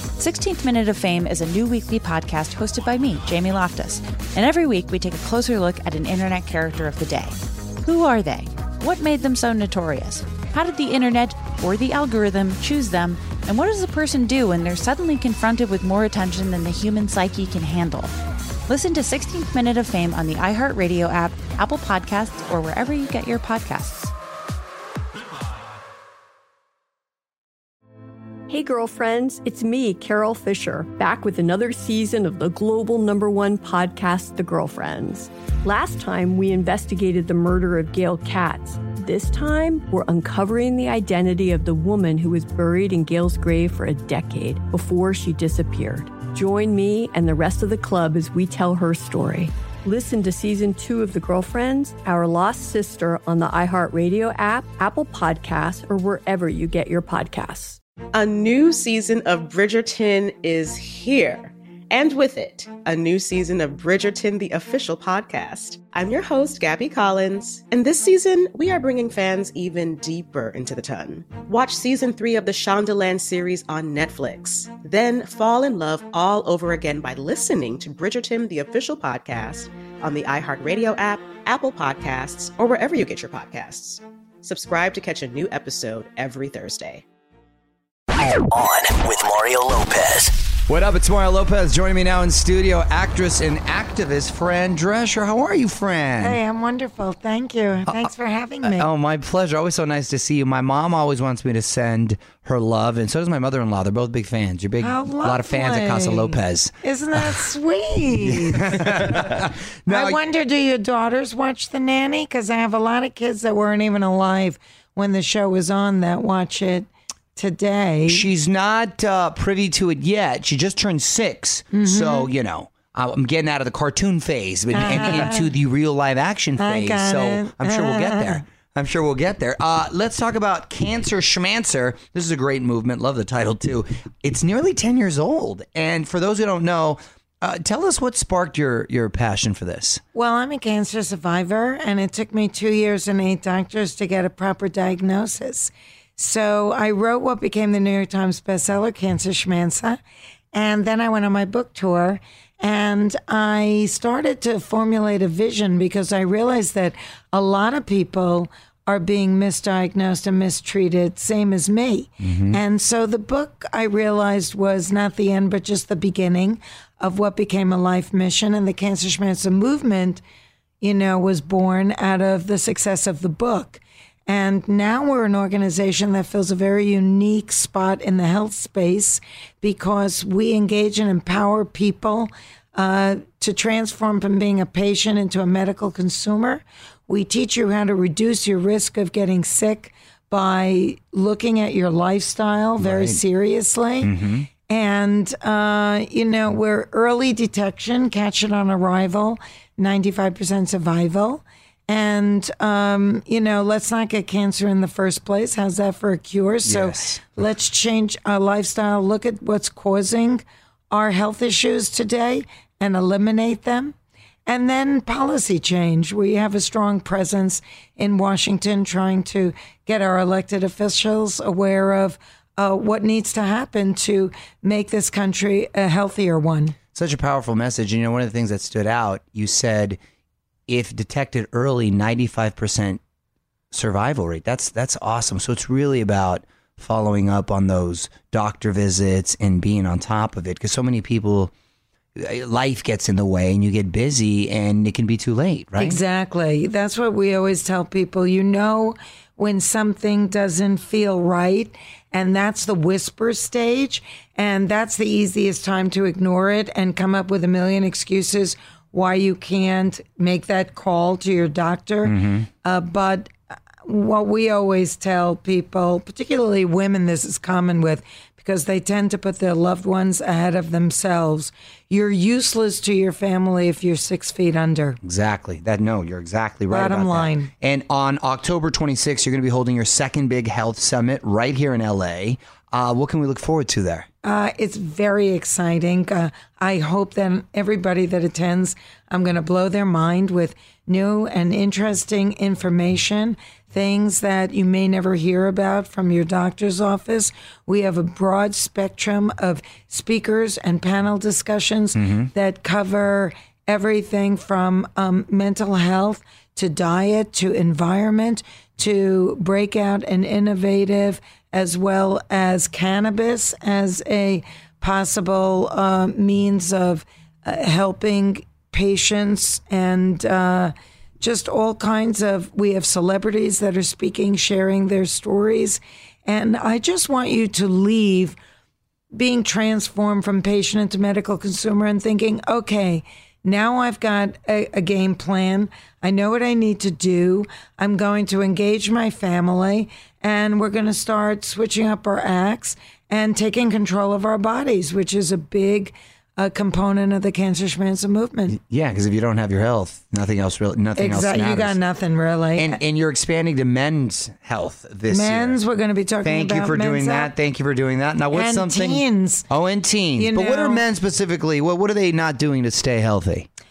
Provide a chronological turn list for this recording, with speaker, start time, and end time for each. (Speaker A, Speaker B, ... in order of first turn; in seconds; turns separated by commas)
Speaker A: 0.2-18.1, Speaker A: 18.7-24.1, Speaker B: 28.5-57.8, Speaker C: 58.1-87.0, Speaker D: 88.3-90.3, Speaker E: 90.7-96.4, Speaker F: 96.2-98.9, Speaker E: 98.6-107.5, Speaker F: 104.8-109.3, Speaker E: 108.2-110.2, Speaker F: 109.9-118.3, Speaker E: 118.1-140.0, Speaker F: 121.7-122.3, Speaker F: 124.7-125.5, Speaker F: 126.6-128.4, Speaker F: 140.2-150.0, Speaker F: 150.5-170.2, Speaker E: 162.2-162.6, Speaker F: 170.8-194.2, Speaker E: 192.8-193.2, Speaker E: 194.0-194.5, Speaker F: 194.7-213.9, Speaker E: 206.7-207.4, Speaker F: 214.5-226.8, Speaker E: 226.9-230.0, Speaker E: 230.7-233.0, Speaker E: 233.7-241.5, Speaker E: 242.2-246.0, Speaker F: 245.8-263.3, Speaker E: 262.1-262.5, Speaker F: 263.9-275.0, Speaker E: 275.0-284.1, Speaker F: 276.7-277.5, Speaker F: 284.2-328.4, Speaker E: 301.9-302.3, Speaker F: 329.1-348.6, Speaker E: 348.5-351.8, Speaker F: 351.0-352.8, Speaker E: 352.6-355.6, Speaker F: 355.1-357.3, Speaker E: 356.2-363.5, Speaker F: 358.3-359.5, Speaker F: 360.2-360.8